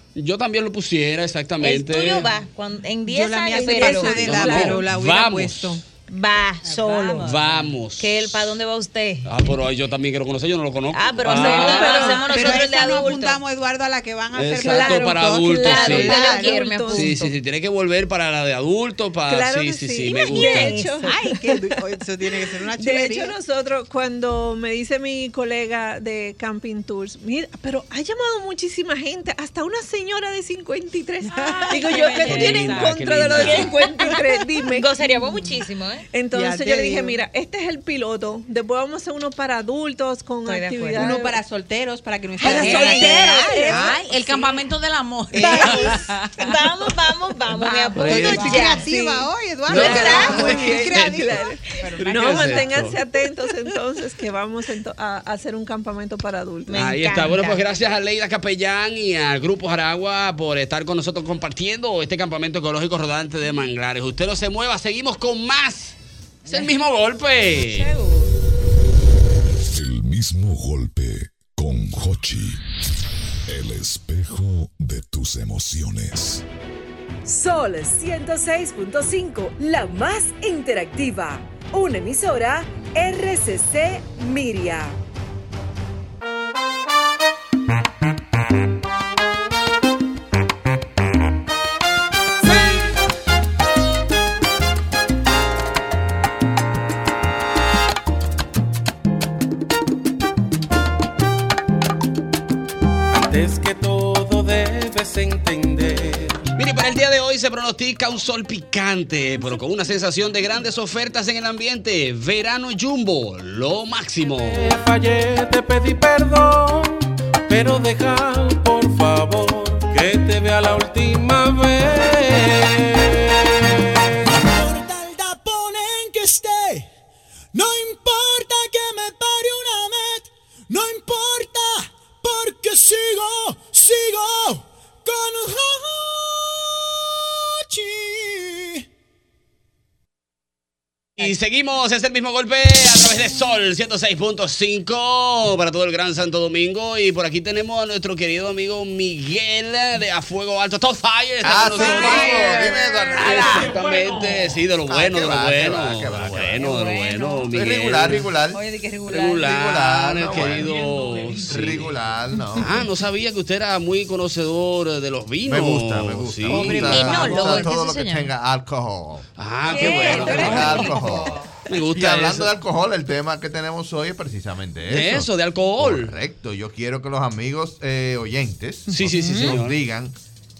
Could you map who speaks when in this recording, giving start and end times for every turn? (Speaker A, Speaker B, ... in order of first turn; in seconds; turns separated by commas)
Speaker A: 0.2-2.3, Speaker B: 1.6-4.7, Speaker C: 3.1-5.8, Speaker D: 3.6-4.7, Speaker A: 4.1-5.7, Speaker B: 6.1-9.4, Speaker A: 7.2-8.3, Speaker A: 9.2-12.2, Speaker B: 10.9-13.4, Speaker D: 11.3-12.4, Speaker C: 11.5-16.6, Speaker A: 14.4-16.3, Speaker D: 14.7-17.2, Speaker B: 15.5-17.3, Speaker A: 16.9-20.8, Speaker D: 19.3-21.2, Speaker B: 20.3-21.2, Speaker C: 21.0-23.3, Speaker D: 22.8-35.5, Speaker B: 31.4-36.1, Speaker A: 32.2-33.8, Speaker D: 36.1-41.4, Speaker C: 36.3-37.2, Speaker B: 40.5-41.2, Speaker C: 40.9-44.5, Speaker D: 42.4-43.9, Speaker E: 42.4-46.5, Speaker B: 42.5-43.7, Speaker C: 45.3-46.0, Speaker B: 45.4-48.9, Speaker E: 47.5-48.1, Speaker A: 48.0-48.5, Speaker C: 48.0-52.6, Speaker D: 48.2-56.8, Speaker A: 49.7-51.3, Speaker B: 49.7-50.9, Speaker A: 52.0-53.0, Speaker B: 56.7-57.7, Speaker A: 56.7-66.0, Speaker A: 66.5-67.9, Speaker E: 67.6-68.3, Speaker F: 69.7-72.6, Speaker F: 73.5-76.4, Speaker G: 77.3-85.0, Speaker H: 103.1-106.4, Speaker A: 106.6-114.7, Speaker H: 114.4-123.2, Speaker I: 124.3-126.8, Speaker I: 127.5-136.8, Speaker I: 137.7-138.8, Speaker A: 141.2-158.3, Speaker J: 151.4-153.7, Speaker E: 152.0-153.3, Speaker J: 154.9-156.7, Speaker E: 156.7-157.4, Speaker J: 157.5-158.6, Speaker E: 158.5-159.3, Speaker B: 158.6-159.1, Speaker A: 159.1-161.9, Speaker J: 159.4-160.8, Speaker E: 161.0-161.4, Speaker J: 161.4-162.8, Speaker A: 162.6-167.2, Speaker J: 165.4-180.1, Speaker B: 166.7-168.3, Speaker A: 169.4-172.5, Speaker B: 169.7-171.3, Speaker E: 169.8-171.1, Speaker A: 174.9-176.2, Speaker A: 178.9-179.8, Speaker B: 179.0-179.6